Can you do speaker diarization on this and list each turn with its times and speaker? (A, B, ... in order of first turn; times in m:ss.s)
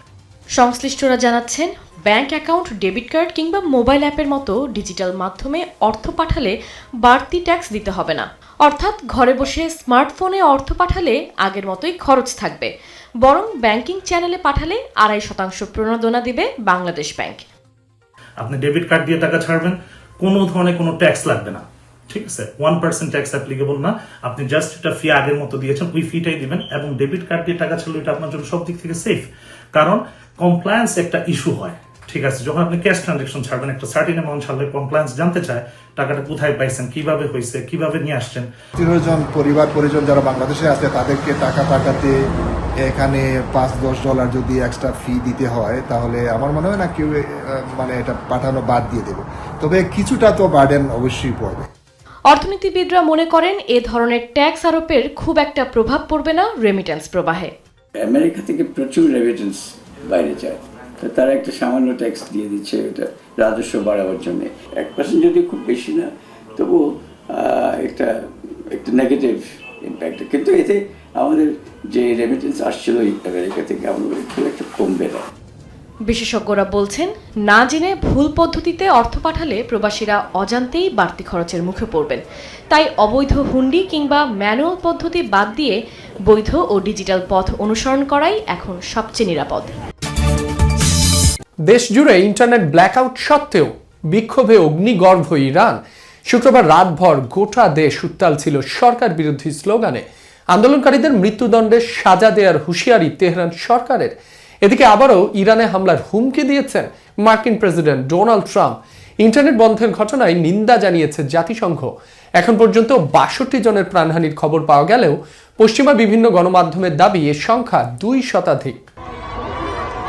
0:00.5-0:12.7 A
0:13.2-0:17.4 A
0:18.4-0:38.5 B
0:38.8-0:42.2 C
0:42.8-0:51.6 C
0:52.3-0:57.5 A
0:58.0-1:08.1 D
1:08.7-1:15.3 D
1:16.1-1:25.8 A
1:26.3-1:29.7 A
1:31.7-1:58.8 E